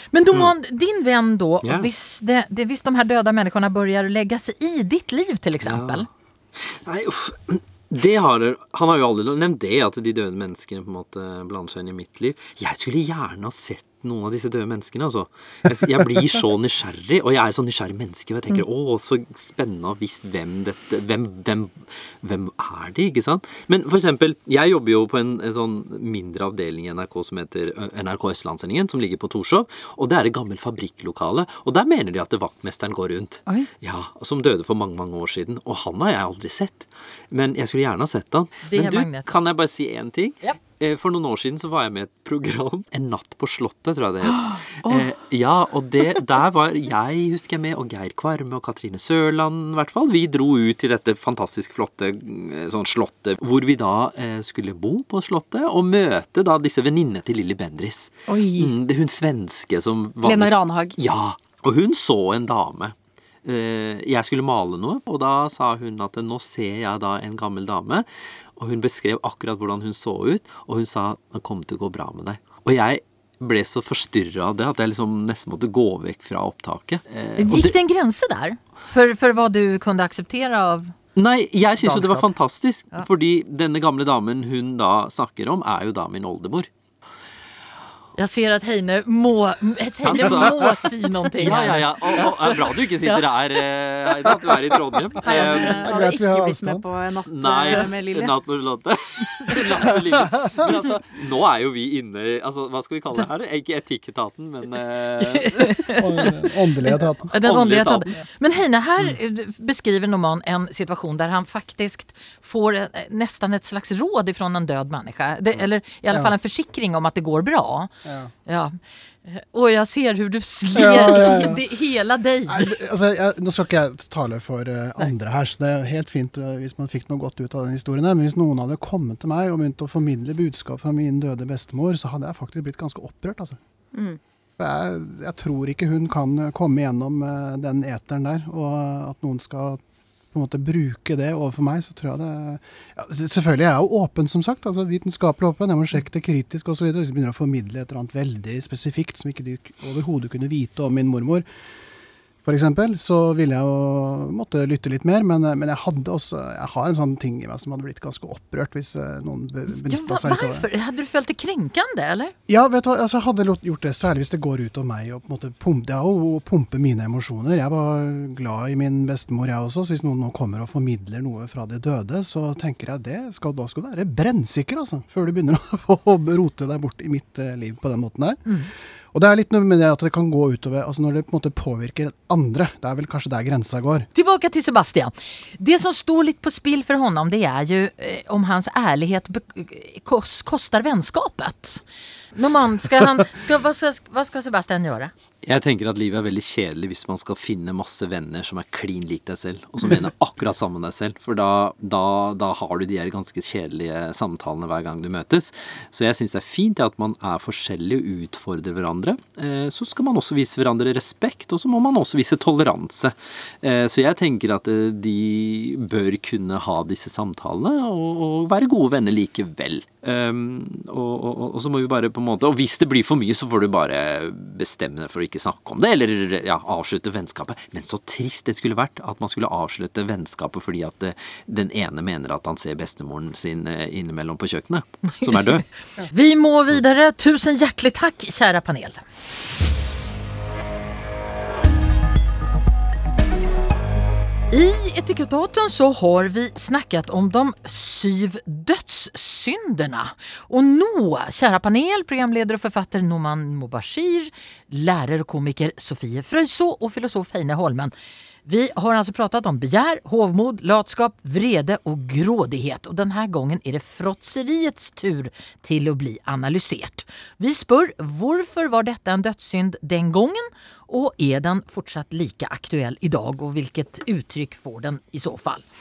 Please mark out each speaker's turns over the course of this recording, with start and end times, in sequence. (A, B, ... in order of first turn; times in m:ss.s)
0:00.1-0:06.1 A
0:01.6-0:01.9 B
0:05.6-1:08.0 B
0:38.7-0:39.3 A
0:44.4-0:45.0 C
0:58.3-0:58.7 C
1:00.2-1:01.0 C
1:08.6-1:17.8 B
1:17.4-1:20.9 A
1:21.2-1:26.7 B
1:21.8-1:22.3 A
1:28.2-1:33.2 A
1:30.0-1:30.8 B
1:31.4-1:35.9 B
1:35.2-1:38.3 C
1:35.7-1:36.8 D
1:37.3-1:45.8 B
1:45.3-1:46.3 A
1:46.0-1:47.3 D
1:46.8-1:57.9 A
1:47.4-1:48.1 B
1:58.0-1:58.3 D
1:58.4-2:02.8 A
2:00.7-2:01.6 D
2:02.5-2:13.6 D
2:13.9-2:14.2 C
2:14.6-2:19.8 D
2:20.3-2:31.4 D
2:32.4-2:40.7 D
2:39.7-2:42.3 A
2:42.5-2:58.6 D
2:59.1-3:04.1 D
3:04.1-3:11.8 A
3:12.3-3:15.1 A
3:15.4-3:55.6 B
3:55.2-3:59.0 A
4:04.5-4:17.9 A
4:18.4-4:35.6 A